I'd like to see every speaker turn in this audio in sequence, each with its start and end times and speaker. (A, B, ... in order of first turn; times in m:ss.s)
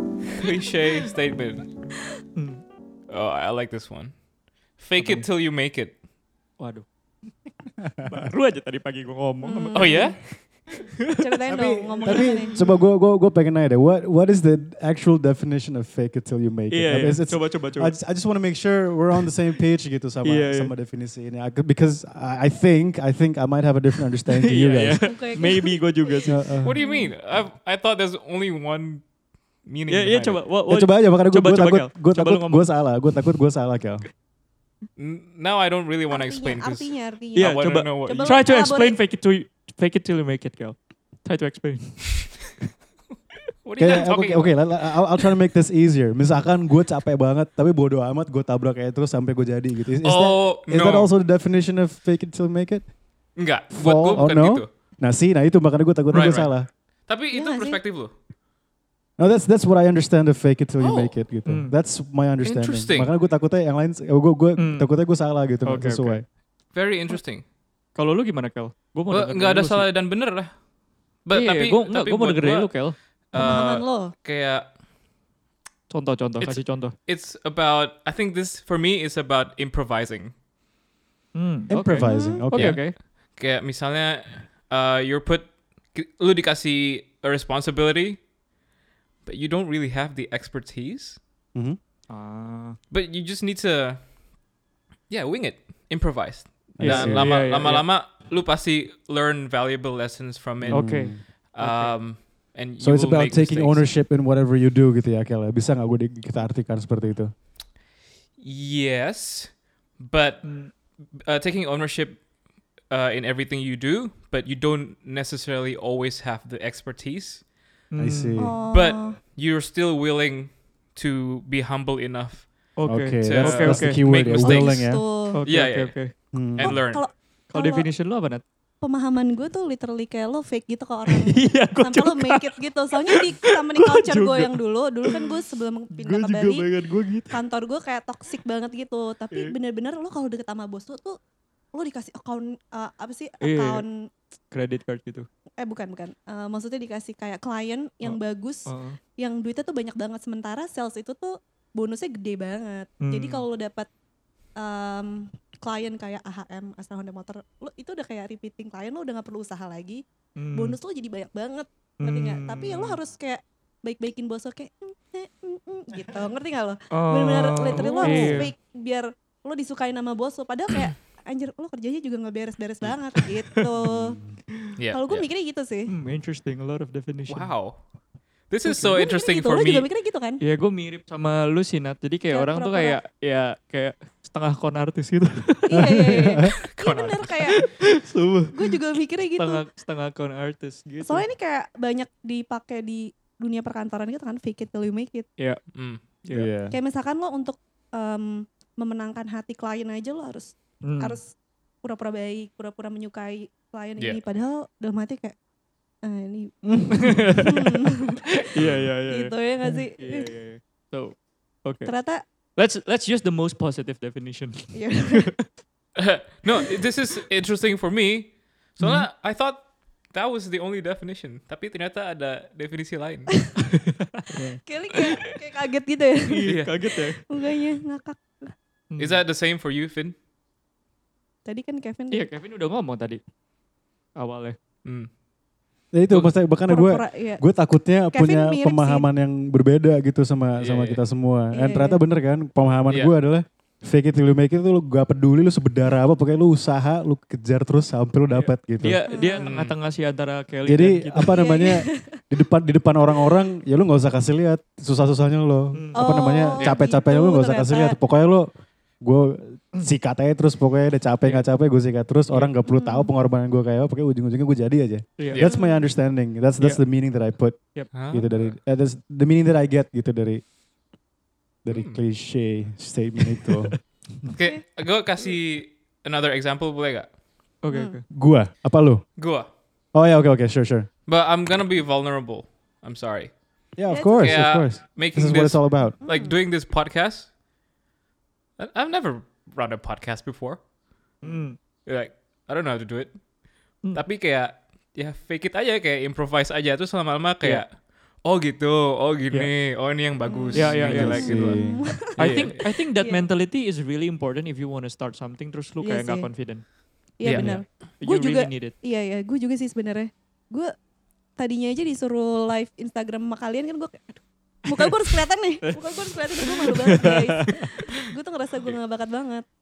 0:00.3-0:01.7 A
0:02.4-0:02.6 B
0:03.1-0:04.2 A
0:04.7-0:06.0 A
0:05.0-0:05.2 B
0:06.6-0:06.8 B
0:08.0-0:09.9 B
0:09.4-0:10.2 C
0:09.8-0:10.3 A
0:10.7-0:12.6 B
0:11.2-0:12.6 C
0:11.5-0:25.0 D
0:16.7-0:18.0 B
0:20.2-0:20.7 B
0:24.3-0:26.6 B
0:25.0-0:27.1 C
0:26.3-0:26.8 D
0:26.6-0:29.1 A
0:29.6-0:30.4 A
0:29.9-0:33.4 B
0:30.7-0:34.1 D
0:35.0-0:38.4 A
0:36.1-0:39.0 C
0:37.4-0:42.6 B
0:43.6-0:44.6 A
0:43.8-0:52.9 D
0:50.0-0:51.1 A
0:53.4-0:54.7 A
0:53.7-0:56.7 D
0:56.1-0:56.5 A
0:57.1-0:58.2 A
0:57.3-0:57.8 C
0:59.2-1:06.2 D
1:00.8-1:01.2 A
1:01.5-1:01.8 B
1:02.4-1:03.1 A
1:04.6-1:04.9 B
1:05.6-1:06.2 B
1:06.7-1:07.4 A
1:08.0-1:09.9 B
1:09.1-1:10.6 A
1:11.2-1:14.8 A
1:11.3-1:13.0 B
1:13.3-1:14.2 C
1:15.9-1:17.0 B
1:16.4-1:20.4 A
1:21.3-1:23.0 B
1:21.7-1:22.8 D
1:22.0-1:22.5 C
1:23.3-1:28.2 A
1:29.2-1:31.2 A
1:32.1-1:32.8 B
1:32.9-1:34.1 A
1:35.1-1:40.9 A
1:36.8-1:37.3 D
1:36.8-1:37.9 B
1:40.6-1:41.2 D
1:40.7-1:42.1 B
1:41.5-1:43.9 A
1:42.8-1:47.3 D
1:48.4-1:52.3 A
1:50.4-1:50.7 B
1:52.8-1:57.5 A
1:57.9-1:58.4 B
1:58.0-1:58.5 D
1:58.4-1:59.2 C
1:58.6-2:02.7 A
2:02.8-2:04.0 B
2:02.9-2:05.0 D
2:03.2-2:06.0 A
2:04.4-2:05.4 C
2:05.3-2:06.2 B
2:06.3-2:07.0 D
2:06.6-2:07.0 A
2:06.6-2:07.9 C
2:07.5-2:08.4 B
2:08.8-2:16.7 C
2:11.1-2:15.4 B
2:15.9-2:17.4 B
2:17.3-2:21.2 C
2:21.7-2:23.9 C
2:23.4-2:23.8 B
2:24.5-2:25.3 B
2:25.6-2:33.9 C
2:28.0-2:29.0 B
2:33.0-2:33.4 B
2:34.6-2:54.2 C
2:40.4-2:40.8 B
2:42.0-2:43.0 B
2:46.9-2:48.5 B
2:47.8-2:48.5 D
2:53.3-2:53.6 B
2:53.8-2:54.4 D
2:54.8-2:55.2 A
2:54.9-2:55.9 C
2:55.9-2:57.5 B
2:57.3-2:57.8 A
2:58.5-2:59.9 A
2:58.6-3:00.4 C
3:00.4-3:06.5 B
3:02.3-3:03.0 C
3:05.7-3:07.6 C
3:05.7-3:06.5 D
3:06.7-3:07.5 A
3:07.5-3:08.8 B
3:08.5-3:09.6 C
3:09.3-3:11.2 B
3:11.0-3:15.3 C
3:15.4-3:15.6 B
3:15.7-3:16.0 A
3:16.2-3:16.5 B
3:16.3-3:16.8 D
3:16.7-3:21.3 C
3:20.8-3:21.2 B
3:21.8-3:25.4 C
3:26.0-3:26.6 C
3:26.6-3:27.4 D
3:27.0-3:27.8 B
3:27.2-3:28.3 C
3:28.3-3:31.9 B
3:28.6-3:28.9 A
3:29.1-3:30.4 C
3:31.8-3:32.2 C
3:32.6-3:35.4 B
3:34.7-3:35.4 C
3:36.0-3:43.4 A
3:38.8-3:39.1 B
3:44.0-3:45.0 B
3:44.6-3:46.5 C
3:46.3-3:47.2 B
3:46.4-3:46.7 A
3:47.3-3:48.5 C
3:48.9-3:49.2 B
3:49.0-3:50.2 A
3:51.5-3:52.3 C
3:52.1-3:53.2 B
3:54.2-3:54.6 B
3:55.9-4:09.0 D
3:56.1-3:56.4 A
3:56.7-3:57.4 C
3:58.1-3:59.1 C
4:00.6-4:01.0 A
4:01.5-4:02.0 C
4:02.9-4:03.2 A
4:08.3-4:11.4 B
4:09.1-4:09.5 C
4:09.4-4:09.8 A
4:10.6-4:18.5 D
4:11.3-4:12.2 C
4:15.8-4:16.0 B
4:16.0-4:18.0 C
4:16.6-4:16.8 A
4:19.0-4:30.4 D
4:22.6-4:23.1 C
4:25.2-4:25.5 B
4:25.4-4:25.9 C
4:27.9-4:28.6 A
4:31.6-4:33.8 D
4:31.7-4:32.0 A
4:33.3-4:33.8 B
4:34.3-4:37.2 A
4:37.6-4:38.0 B
4:37.7-4:38.0 C
4:38.1-4:39.1 D
4:39.2-4:39.5 A
4:39.9-4:40.9 D
4:41.1-4:43.5 A
4:43.8-4:46.0 D
4:43.9-4:44.4 C
4:44.1-4:47.3 A
4:46.0-4:46.4 C
4:48.6-4:50.6 A
4:51.2-4:51.6 B
4:51.8-4:53.2 A
4:53.8-5:02.6 A
5:00.2-5:03.3 C
5:00.5-5:01.4 B
5:00.7-5:01.8 D
5:02.2-5:08.8 B
5:05.8-5:06.3 C
5:07.2-5:10.7 C
5:07.4-5:07.6 D
5:11.4-5:19.5 C
5:15.7-5:17.9 B